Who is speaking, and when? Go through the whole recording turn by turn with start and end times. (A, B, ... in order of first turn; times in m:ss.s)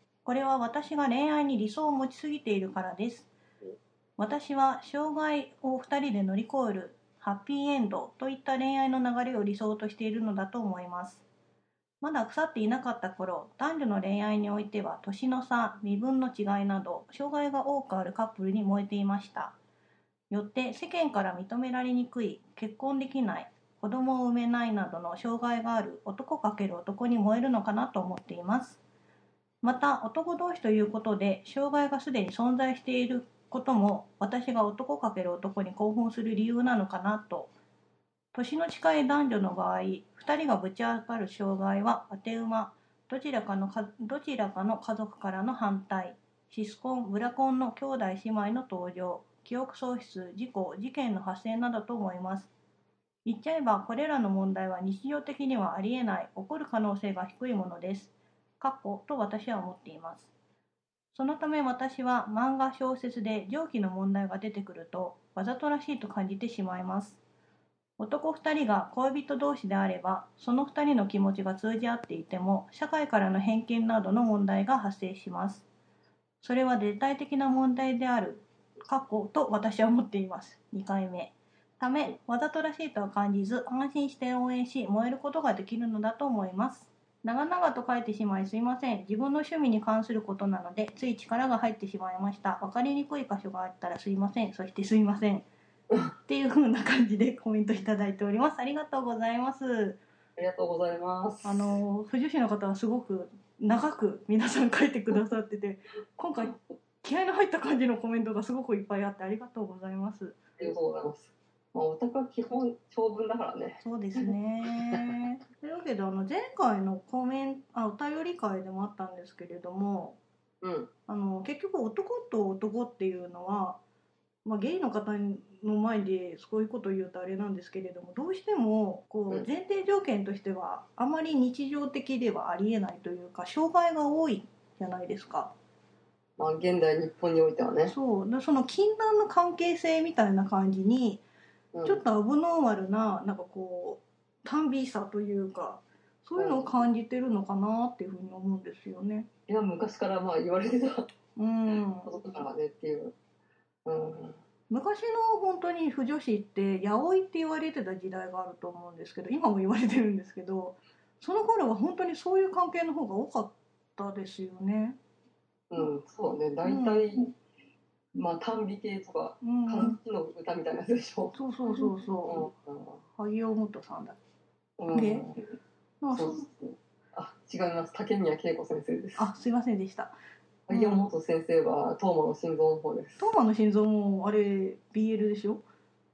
0:00.2-0:03.3 A
0:04.2-0:11.2 A
0:12.0-0:19.5 A
0:20.3-0:28.8 A
0:29.6-0:37.5 A
0:38.3-0:52.5 A
0:53.2-1:00.3 A
1:01.1-1:07.2 A
1:08.0-1:15.6 A
1:16.4-1:35.4 A
1:36.2-1:40.0 A
1:40.4-1:41.8 B
1:41.4-1:50.4 A
1:50.6-1:54.2 B
1:53.8-2:00.2 A
2:00.6-2:00.9 B
2:01.1-2:03.8 A
2:04.4-2:15.5 A
2:16.4-2:17.9 B
2:17.9-2:21.2 A
2:21.7-2:22.0 B
2:21.8-2:29.3 A
2:26.4-2:26.7 B
2:29.5-2:31.1 B
2:31.4-2:32.1 A
2:32.0-2:33.1 B
2:33.8-2:34.4 B
2:34.7-2:45.0 A
2:45.7-2:47.3 B
2:46.6-2:47.0 A
2:48.1-2:53.0 B
2:49.4-2:50.0 A
2:51.3-2:52.5 A
2:53.1-2:54.2 A
2:54.8-2:55.4 B
2:54.9-2:55.3 A
2:56.0-2:56.4 A
2:56.1-2:59.3 B
2:59.2-3:00.1 A
3:00.7-3:03.3 B
3:00.7-3:01.0 A
3:03.2-3:05.6 A